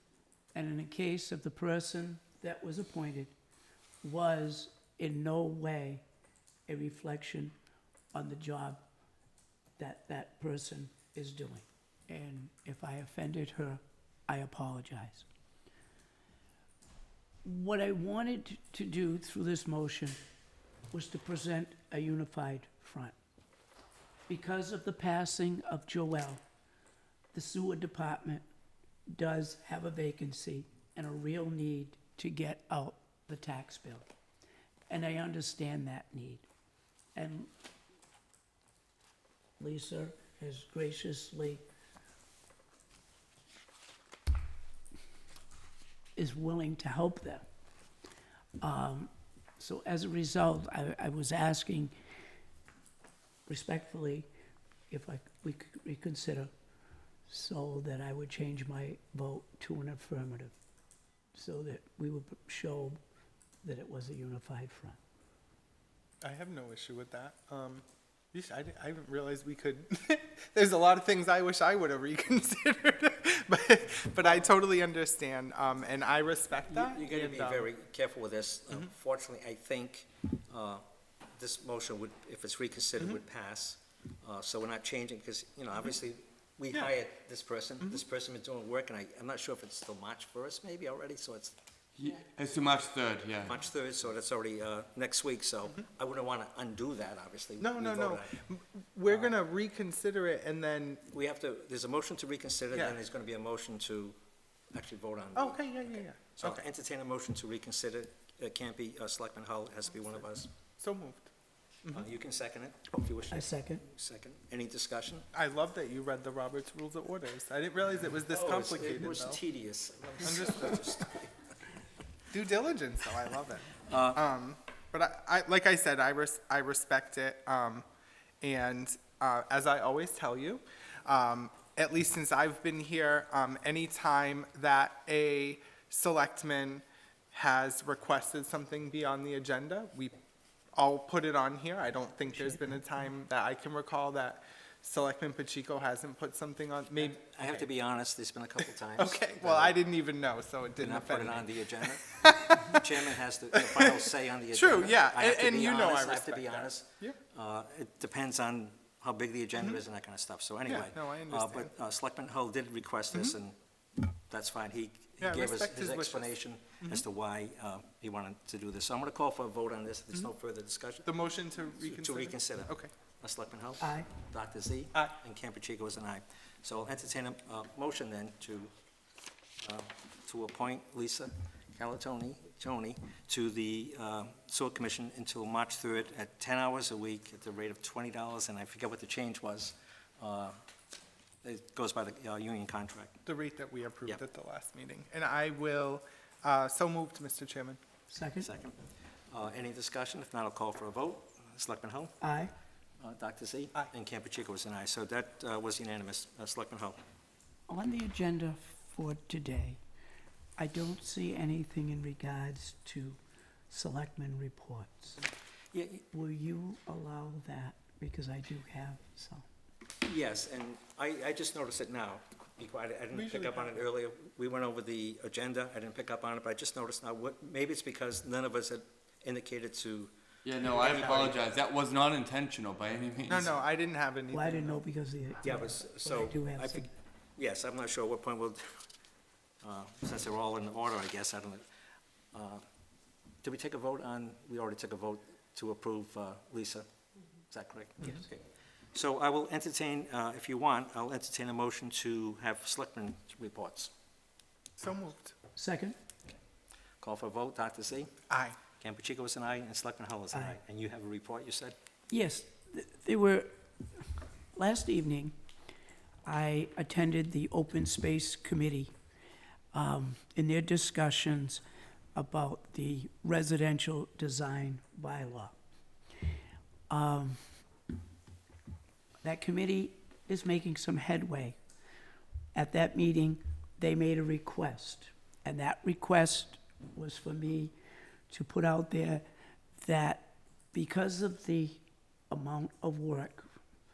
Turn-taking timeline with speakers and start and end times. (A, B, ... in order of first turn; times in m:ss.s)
0:00.5-0:03.3 A
0:04.0-0:06.0 A
0:06.7-0:07.5 A
0:08.1-0:08.8 A
0:09.8-0:15.3 A
0:17.4-0:20.2 A
0:20.9-0:23.1 A
0:24.3-0:26.4 A
0:27.3-0:28.4 A
0:29.1-0:34.1 A
0:34.9-0:36.5 A
0:37.1-0:37.5 A
0:39.6-0:41.6 A
0:46.2-0:47.4 A
0:48.6-0:51.9 A
0:53.5-0:54.3 A
0:54.9-0:56.5 A
0:57.3-1:00.5 A
1:01.3-1:03.0 A
1:03.6-1:05.0 A
1:06.2-1:17.7 B
1:16.7-1:20.8 C
1:21.3-1:31.6 C
1:32.0-1:33.6 D
1:33.4-1:38.3 C
1:37.6-1:41.0 B
1:41.1-1:44.2 C
1:42.7-1:43.0 B
1:44.7-1:50.5 C
1:45.4-1:46.6 B
1:50.8-1:51.3 B
1:51.9-1:55.2 C
1:53.3-1:53.8 A
1:55.3-1:59.4 B
1:58.3-2:01.3 C
2:00.2-2:00.8 B
2:02.3-2:07.8 B
2:03.9-2:04.2 C
2:08.4-2:20.1 B
2:20.7-2:27.7 B
2:27.0-2:29.8 C
2:29.0-2:32.8 B
2:30.8-2:43.6 C
2:33.5-2:37.2 B
2:40.6-2:41.7 B
2:44.3-2:51.1 C
2:45.2-2:46.3 B
2:51.0-2:52.9 B
2:51.8-2:58.7 C
2:53.8-2:54.1 A
2:59.6-3:10.6 C
3:11.4-3:13.2 C
3:13.2-3:17.8 B
3:18.1-3:18.5 A
3:18.4-3:18.8 C
3:19.3-3:22.2 C
3:22.2-3:22.5 A
3:23.0-3:27.0 C
3:27.7-3:29.8 A
3:30.6-3:33.2 A
3:33.7-3:35.2 A
3:35.7-3:36.0 C
3:36.1-3:39.4 A
3:40.0-3:50.1 C
3:43.1-3:43.8 B
3:50.4-3:53.5 D
3:50.7-3:51.2 C
3:50.8-3:51.4 B
3:53.3-3:54.8 B
3:54.3-3:56.9 A
3:55.4-3:58.8 C
3:59.6-4:01.6 C
4:02.3-4:02.6 C
4:03.4-4:06.8 C
4:07.5-4:13.9 C
4:14.8-4:15.3 B
4:15.6-4:16.0 A
4:17.0-4:18.1 C
4:18.3-4:18.6 B
4:18.8-4:21.8 C
4:20.3-4:20.6 A
4:22.1-4:23.5 A
4:24.5-4:25.3 A
4:26.2-4:28.9 A
4:29.7-4:31.6 A
4:32.1-4:35.6 A
4:36.9-4:37.4 A
4:39.2-4:41.6 A
4:42.5-4:47.7 A
4:48.3-4:49.2 A
4:49.7-4:53.5 A